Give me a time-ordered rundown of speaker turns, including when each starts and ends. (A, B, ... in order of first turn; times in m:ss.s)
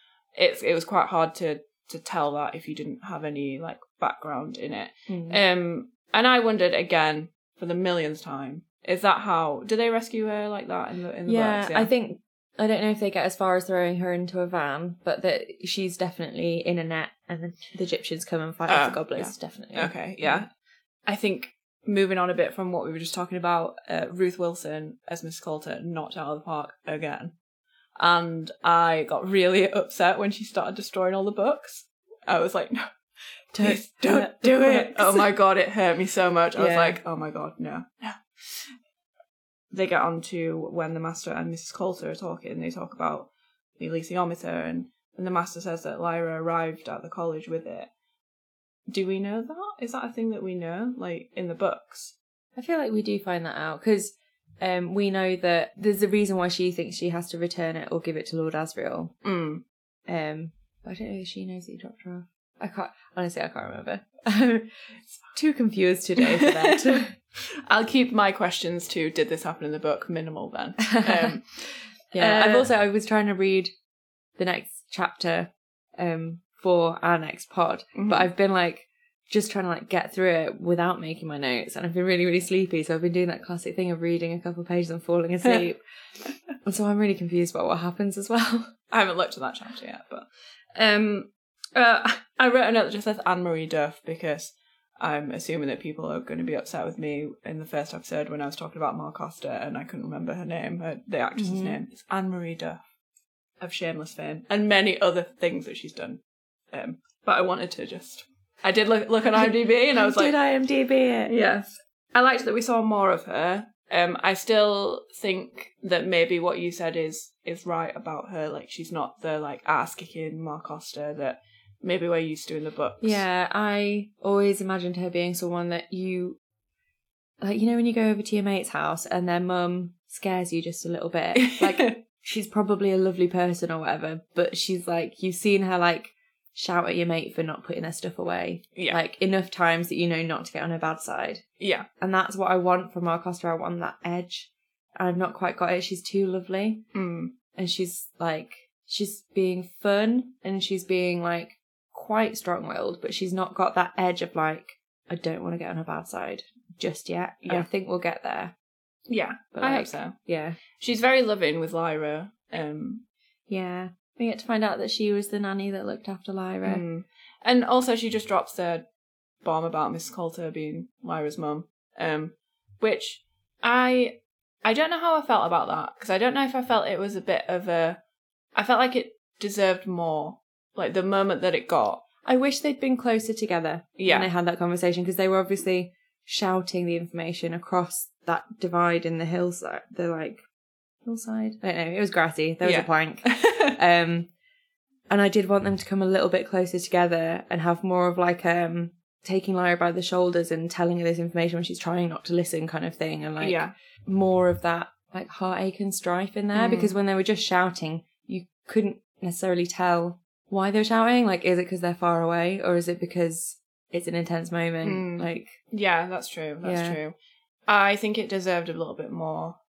0:00.4-0:11.9 A
0:05.1-0:05.4 B
0:11.3-0:20.4 B
0:18.7-0:20.5 A
0:21.1-0:27.3 A
0:28.0-0:32.9 A
0:33.5-0:35.3 B
0:33.6-0:38.7 A
0:36.6-0:37.0 B
0:39.7-0:47.9 A
0:48.9-0:52.2 A
0:52.6-0:59.2 B
0:59.2-0:59.6 A
1:00.1-1:07.2 B
1:06.2-1:12.7 A
1:10.9-1:11.4 B
1:12.1-1:13.7 B
1:14.4-1:25.8 B
1:18.0-1:18.3 A
1:26.6-1:28.7 B
1:28.9-1:42.8 A
1:41.4-1:41.8 B
1:43.6-1:46.2 A
1:46.7-1:50.3 A
1:49.3-1:51.3 B
1:51.3-2:03.2 A
2:03.0-2:06.4 B
2:07.4-2:21.4 B
2:11.4-2:12.0 A
2:21.6-2:21.9 A
2:22.0-2:26.9 B
2:26.9-2:27.3 A
2:27.6-2:38.5 B
2:39.1-2:40.2 A
2:39.6-2:40.6 B
2:40.8-2:43.0 A
2:43.5-2:46.8 B
2:46.6-2:48.9 A
2:49.4-2:58.0 A
2:58.6-3:02.0 A
3:02.2-3:10.4 B
3:04.0-3:04.3 A
3:11.0-3:14.3 B
3:12.6-3:13.8 A
3:15.1-3:35.6 B
3:23.4-3:23.7 A
3:26.5-3:27.0 A
3:34.8-3:37.2 A
3:36.6-3:37.0 B
3:37.7-3:39.6 A